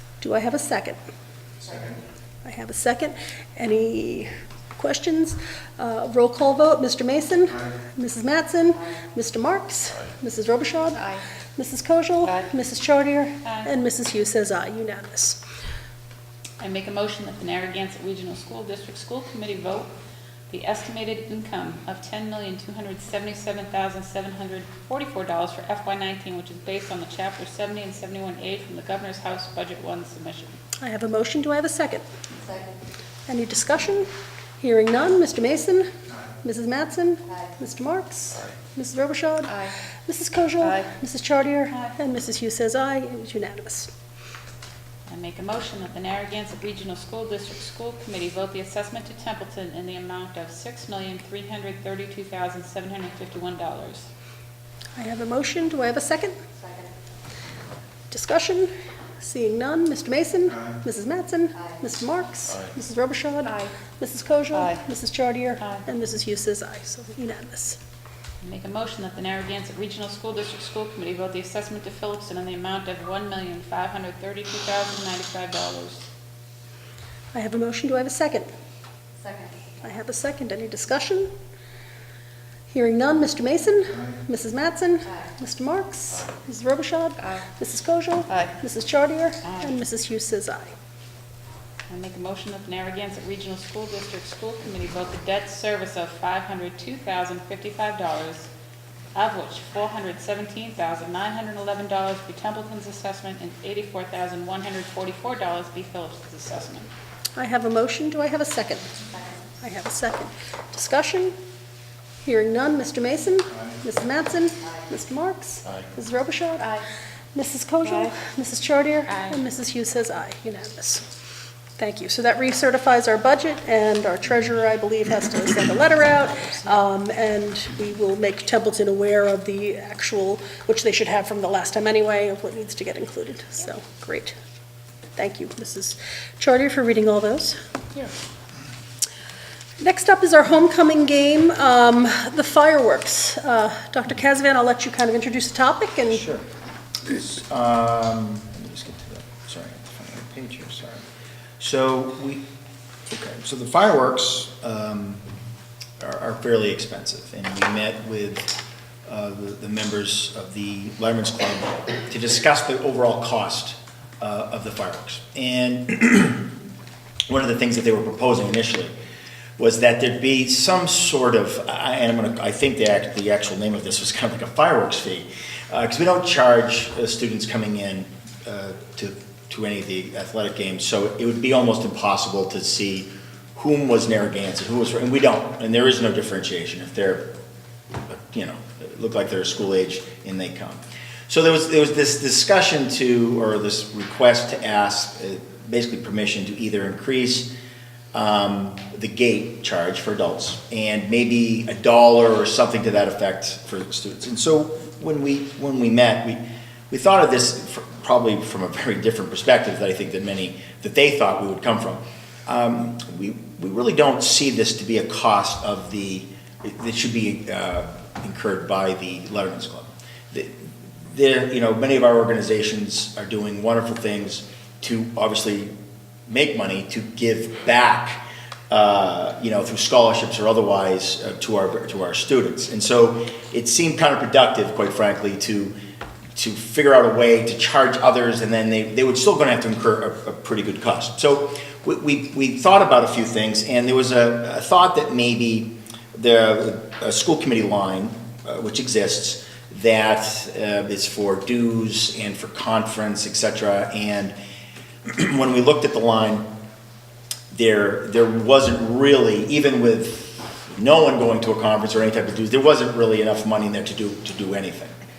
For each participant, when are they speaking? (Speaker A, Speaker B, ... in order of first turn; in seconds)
Speaker A: 0.2-1.0, 2.4-15.4, 30.8-32.0, 33.3-34.1, 34.6-35.9, 36.4-39.5, 40.1-43.9, 55.0-56.4, 58.1-67.8, 77.3-78.5, 79.8-81.3, 82.7-90.7, 107.3-108.9, 109.6-111.3, 112.2-116.8, 117.3-121.0, 121.8-134.3, 135.2-137.6, 139.8-146.2
Speaker B: 13.4-13.7, 16.6-19.9, 20.5-30.6, 45.1-54.1, 65.6-65.8, 68.4-76.0, 89.4-89.8, 91.9-98.5, 99.1-106.9, 119.1-119.4, 126.0-126.8
Speaker C: 146.1-146.4, 147.0-151.0, 151.6-152.4, 153.1-155.2, 156.0-166.5, 167.3-168.9, 169.6-187.2, 188.1-197.5, 198.1-225.7, 226.3-235.7, 236.3-254.3, 255.0-256.4, 257.5-264.9